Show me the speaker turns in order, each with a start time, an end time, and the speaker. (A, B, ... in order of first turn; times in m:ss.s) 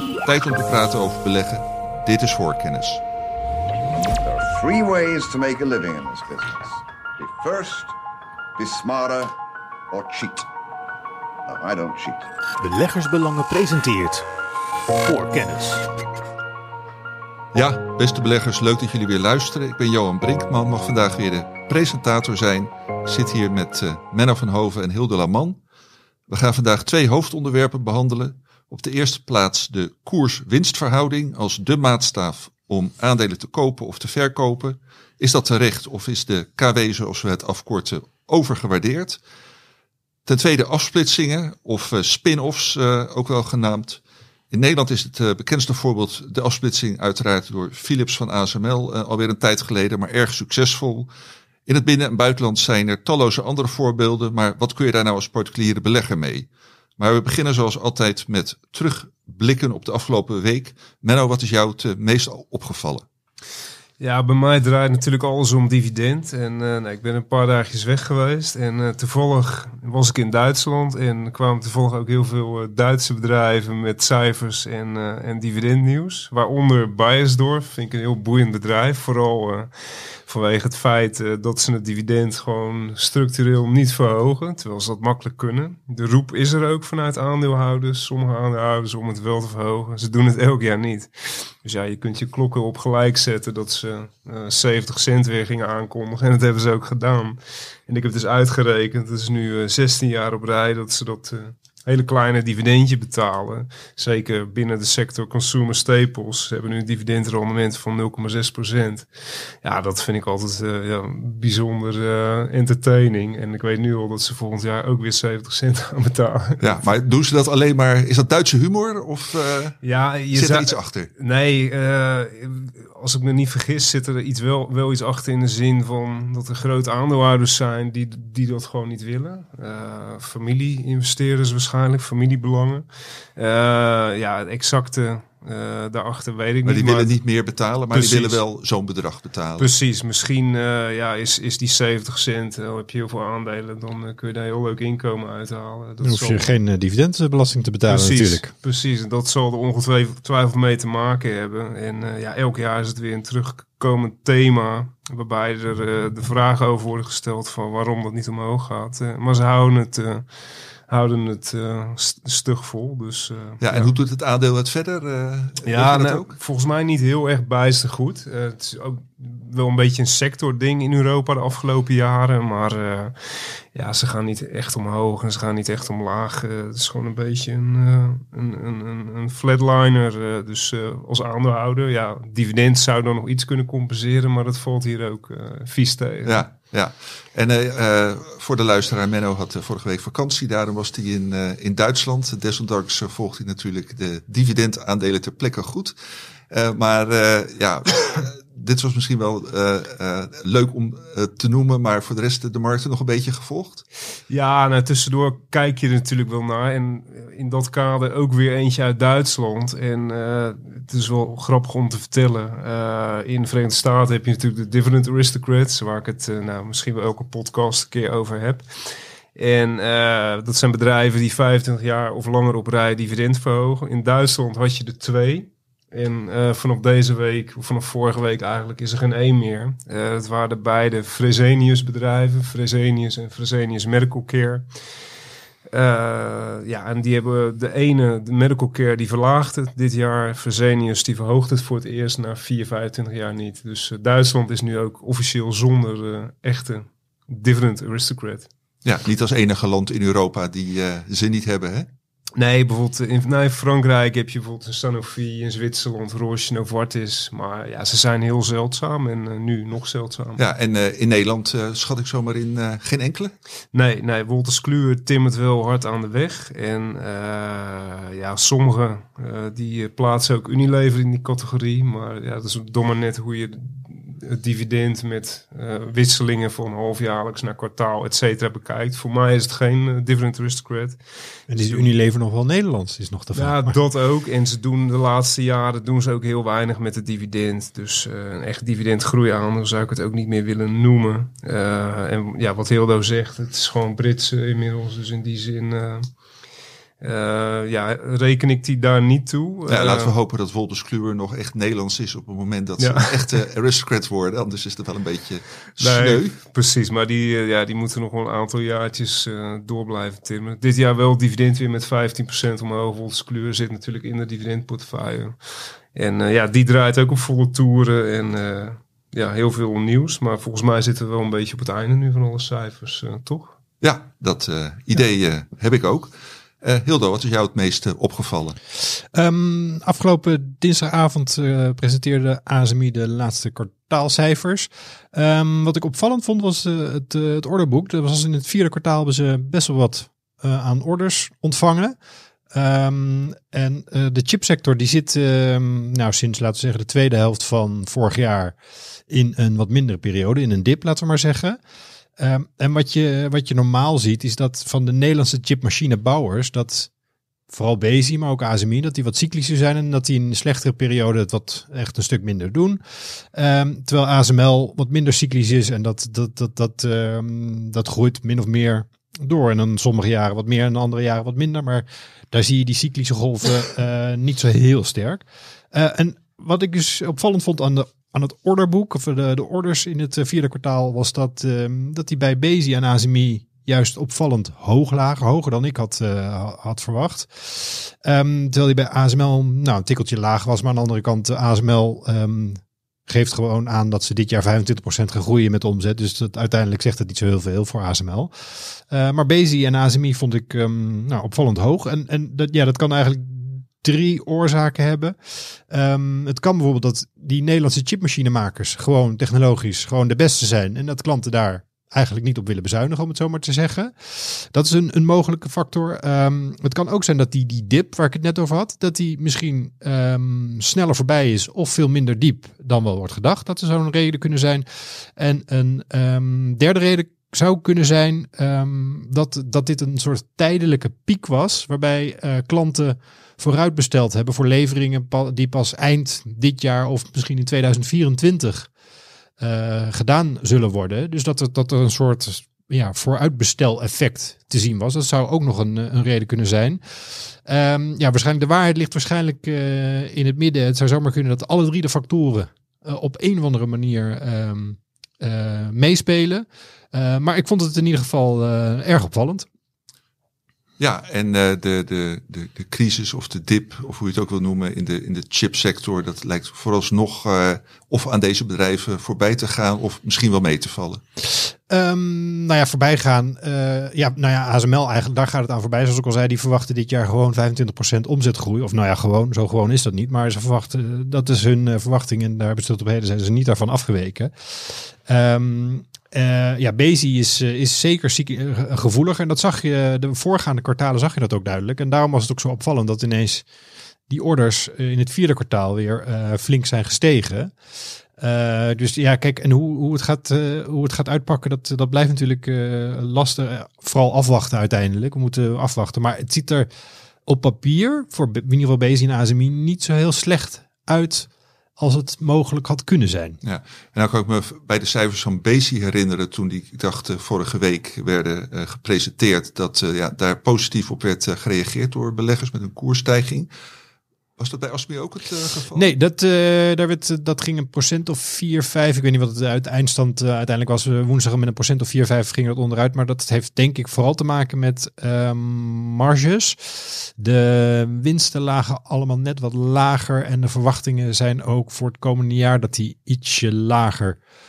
0:00.2-0:03.0 A
0:04.2-0:08.0 B
0:08.6-0:09.3 B
0:09.9-0:10.5 B
0:11.4-0:12.3 B
0:12.6-0:14.2 C
0:15.0-0:15.8 C
0:17.5-0:25.6 A
0:26.3-0:39.2 A
0:40.2-0:51.1 A
0:51.7-1:03.0 A
1:04.0-1:19.7 D
1:20.2-1:49.1 D
1:49.6-1:56.8 D
1:56.6-1:59.8 A
1:59.8-2:17.2 D
2:00.3-2:01.1 A
2:16.6-2:19.7 A
2:17.9-2:18.4 D
2:19.6-2:26.5 D
2:26.0-2:28.5 E
2:27.9-2:40.3 D
2:40.9-2:43.9 D
2:43.6-2:46.3 A
2:45.6-3:06.4 D
3:06.2-3:15.9 A
3:16.5-3:23.8 A
3:24.3-3:54.7 D
3:55.7-4:08.5 D
4:08.8-4:11.9 A
4:12.3-4:20.4 D
4:20.4-4:23.3 A
4:23.7-4:41.0 D
4:41.5-4:43.8 E
4:41.5-4:41.9 D
4:43.3-4:56.1 D
4:57.0-5:00.1 D
4:59.7-5:06.3 A
5:02.8-5:03.4 D
5:05.8-5:15.4 D
5:15.9-5:23.5 D
5:23.8-5:28.6 A
5:29.1-5:41.9 E
5:42.5-5:48.5 E
5:49.1-5:51.6 E
5:52.2-5:56.9 E
5:57.5-7:18.7 E
7:19.4-7:39.5 E
7:40.8-7:51.0 A
7:51.4-8:13.4 E
8:14.1-8:17.5 E
8:18.2-8:26.7 E
8:27.2-8:33.4 E
8:33.4-8:43.5 A
8:44.4-8:45.9 A
8:45.7-9:04.2 E